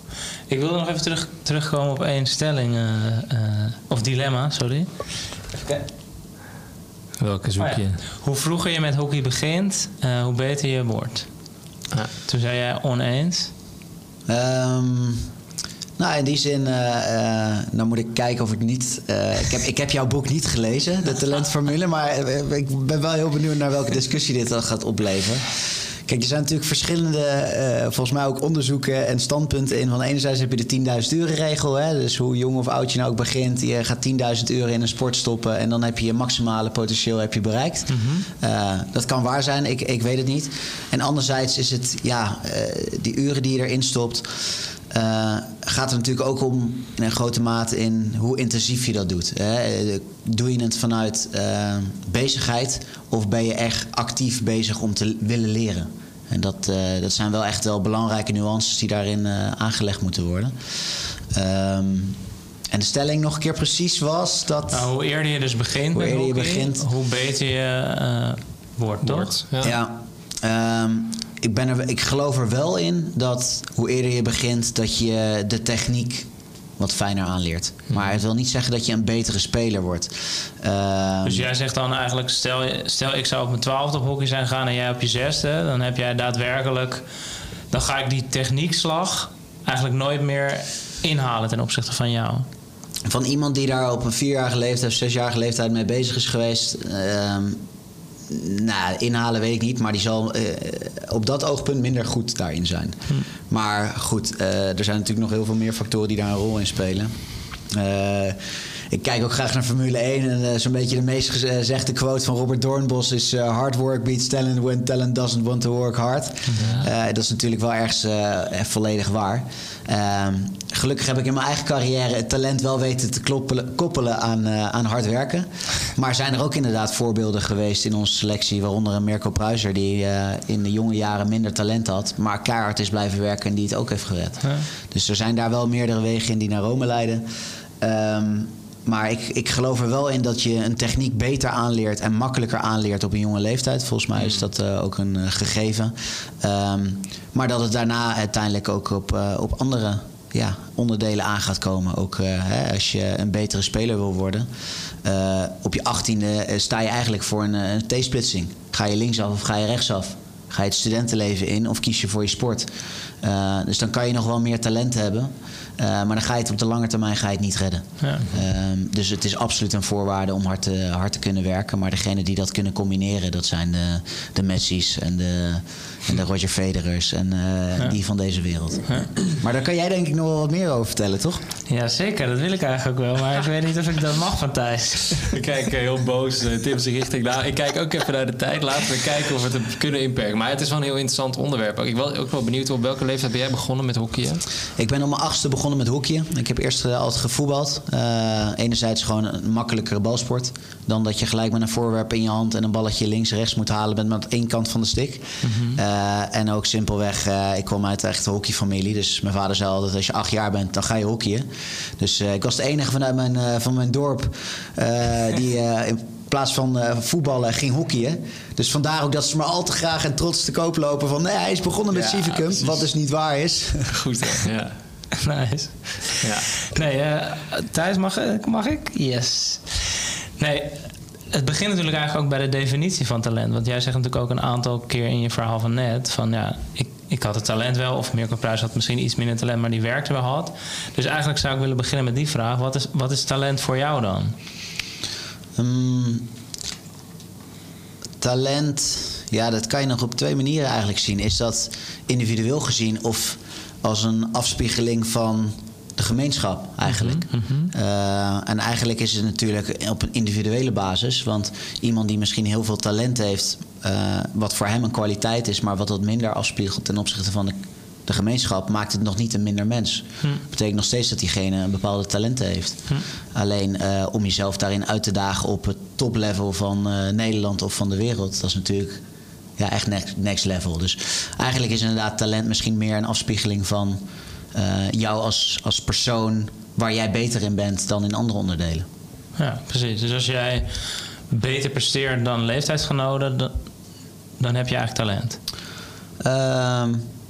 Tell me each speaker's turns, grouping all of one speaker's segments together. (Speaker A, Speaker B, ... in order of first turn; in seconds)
Speaker A: 0.5-4.9, 5.5-5.8, 7.6-11.3, 12.2-13.5, 37.9-38.3, 64.7-69.4, 81.2-87.0, 87.7-92.5, 181.7-185.3, 205.4-205.8, 225.2-229.7, 230.4-244.3, 257.3-257.7, 289.4-293.6, 294.4-295.4
Speaker B: 7.2-8.0, 69.0-69.8, 116.6-116.9, 185.3-194.4, 221.9-222.4, 223.9-224.8, 226.2-226.5
Speaker C: 14.3-15.3, 16.0-60.6, 61.3-62.2, 62.7-64.9, 65.9-66.8, 69.6-76.3, 76.8-81.5, 93.1-97.6, 98.3-107.1, 107.7-137.2, 137.8-154.5, 155.0-181.4, 194.8-224.0, 245.6-246.3, 248.2-267.6, 268.1-279.0, 279.6-284.0, 284.5-288.9, 296.2-297.1